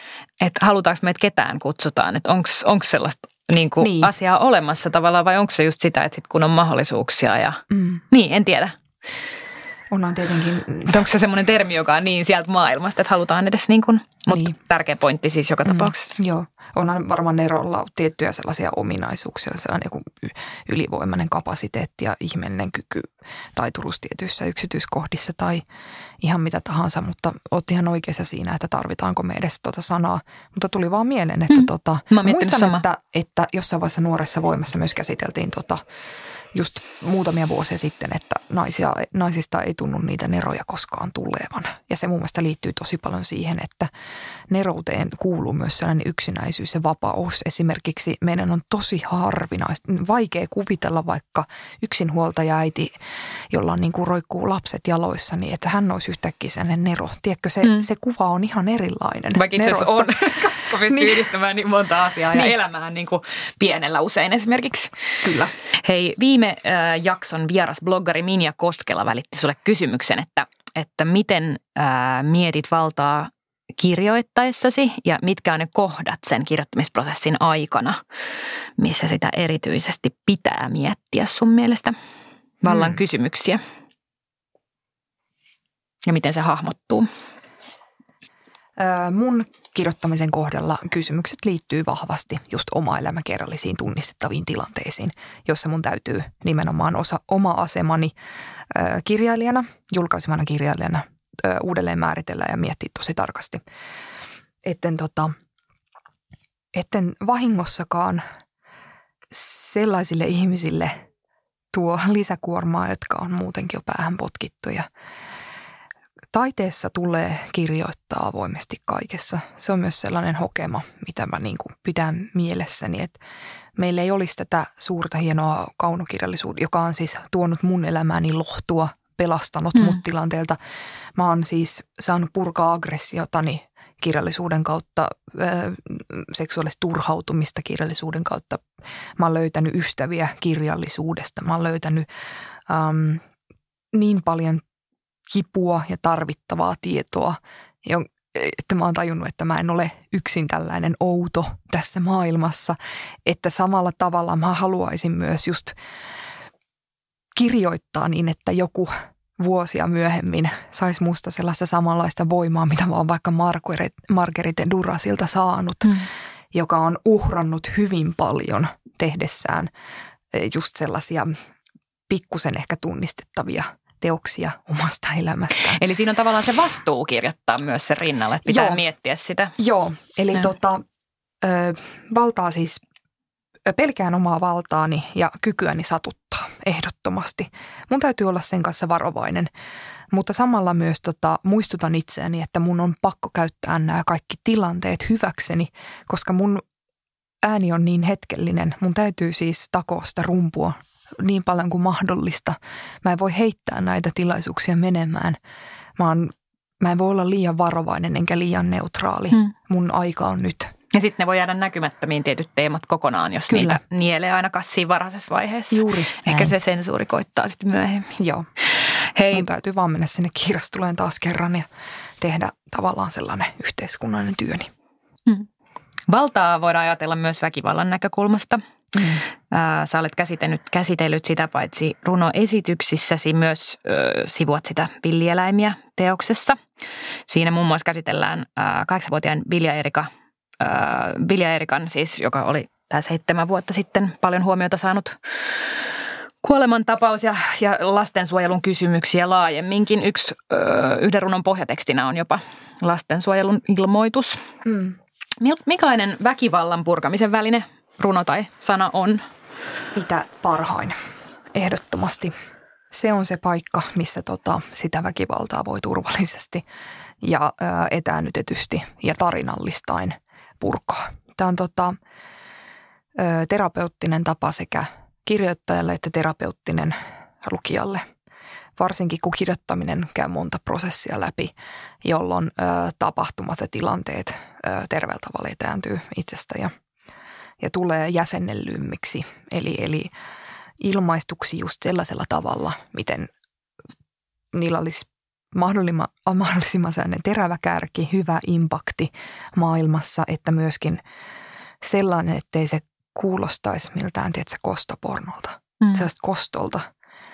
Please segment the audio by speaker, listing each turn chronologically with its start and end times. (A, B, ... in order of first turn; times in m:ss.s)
0:00.4-0:08.8 A
0:03.8-0:04.1 B
0:07.7-0:08.0 B
0:09.9-0:11.0 B
0:10.9-0:16.1 A
0:15.6-0:25.6 B
0:26.2-0:35.8 B
0:31.5-0:32.9 A
0:36.5-0:43.9 B
0:44.5-0:53.0 B
0:53.5-1:01.3 B
0:59.3-1:05.0 A
1:05.2-1:05.5 B
1:05.8-1:18.0 A
1:18.8-1:22.0 A
1:22.6-1:23.0 B
1:22.6-1:23.6 A
1:26.1-1:27.1 A
1:28.8-1:38.2 B
1:38.7-1:43.6 B
1:44.6-1:45.3 B
1:46.7-1:48.2 B
1:49.3-1:51.0 B
1:51.7-1:54.9 B
1:56.3-2:03.2 B
2:03.8-2:10.6 B
2:11.2-2:18.6 B
2:19.2-2:22.1 B
2:22.7-2:23.2 B
2:23.9-2:24.6 B
2:25.3-2:35.8 B
2:37.4-2:49.7 B
2:50.3-2:51.4 B
2:52.1-2:55.8 B
2:55.6-2:59.6 A
2:58.5-2:58.8 B
2:59.6-3:00.8 B
3:01.4-3:02.8 B
3:03.7-3:09.5 B
3:10.1-3:16.6 B
3:17.4-3:25.4 B
3:26.0-3:30.7 B
3:30.9-3:38.2 A
3:33.5-3:33.8 B
3:35.7-3:36.5 B
3:38.2-3:38.5 B
3:39.0-3:39.5 A
3:39.3-3:41.7 B
3:42.2-3:44.7 B
3:46.1-3:48.6 A
3:49.0-3:49.2 B
3:49.5-3:56.6 A
3:57.3-4:00.1 A
4:00.6-4:05.8 A
4:06.4-4:14.4 A
4:14.6-4:15.0 B
4:15.4-4:19.3 A
4:20.0-4:21.0 B
4:21.5-4:22.3 B
4:22.9-4:26.6 B
4:27.2-4:32.0 B
4:33.2-4:38.1 B
4:38.8-4:46.7 B
4:47.6-4:50.1 B
4:50.8-4:53.3 B
4:54.5-5:01.0 B
5:01.8-5:06.8 B
5:05.8-5:06.1 A